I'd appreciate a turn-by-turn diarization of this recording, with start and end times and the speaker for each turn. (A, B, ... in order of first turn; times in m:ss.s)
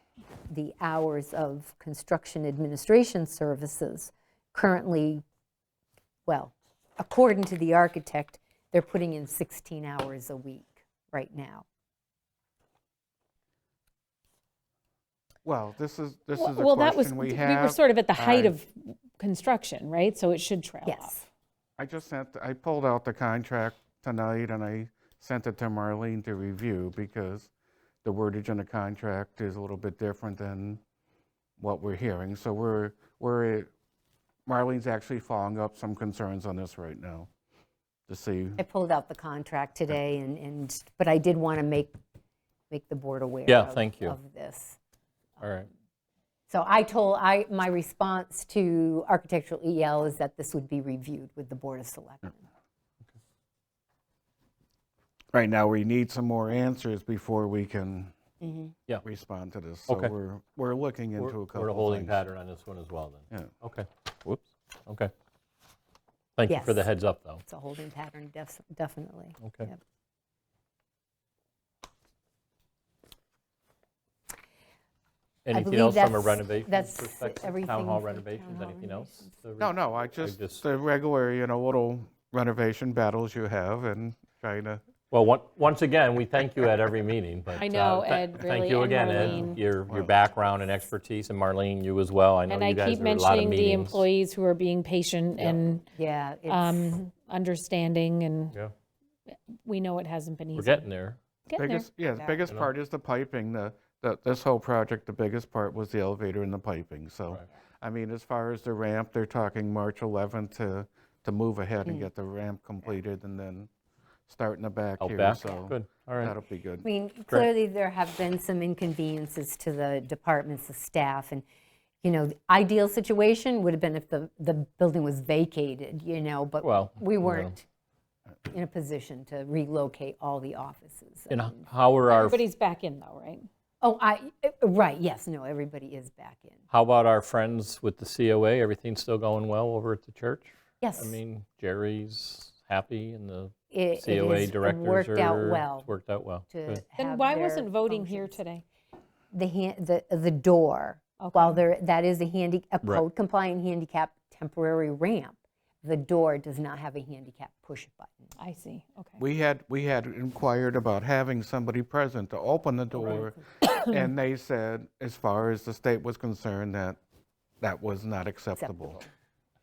0:00.5-0:05.2 A
0:06.3-0:11.6 A
0:15.4-0:18.5 B
0:16.3-0:21.2 C
0:20.8-0:21.2 A
0:21.8-0:27.5 B
0:28.0-0:30.8 B
0:31.6-0:33.7 B
0:34.5-0:37.3 B
0:38.1-0:38.6 B
0:38.6-0:41.9 A
0:42.7-0:44.8 A
0:43.5-0:44.2 D
0:45.4-0:45.7 D
0:46.5-0:52.4 A
0:55.3-0:58.1 B
0:58.4-0:58.7 A
0:59.0-1:02.2 B
0:59.9-1:00.1 D
1:01.2-1:05.1 D
1:06.4-1:07.4 D
1:06.5-1:06.9 A
1:07.4-1:09.8 A
1:09.4-1:09.7 D
1:15.4-1:20.6 D
1:15.5-1:19.2 A
1:19.6-1:24.8 B
1:25.1-1:34.0 D
1:27.5-1:29.6 C
1:29.1-1:29.4 A
1:29.9-1:30.1 B
1:32.5-1:35.9 C
1:36.0-1:37.0 A
1:36.5-1:38.6 C
1:39.6-1:40.9 C
1:40.6-1:41.2 D
1:41.5-1:41.8 C
1:41.5-1:53.7 B
1:42.1-1:42.4 A
1:54.3-1:56.9 B
1:55.0-1:56.3 D
1:56.8-2:01.4 A
2:02.0-2:07.6 A
2:06.6-2:07.6 D
2:08.5-2:11.7 A
2:11.3-2:12.4 D
2:12.1-2:13.4 C
2:13.8-2:16.6 A
2:16.7-2:26.8 D
2:20.8-2:21.2 A
2:23.7-2:25.9 A
2:26.5-2:28.4 A
2:27.0-2:28.6 C
2:29.3-2:38.3 A
2:31.2-2:31.6 C
2:38.4-2:39.2 C
2:39.2-2:47.0 B
2:43.0-2:43.7 A
2:47.6-2:49.0 B
2:48.6-2:49.1 A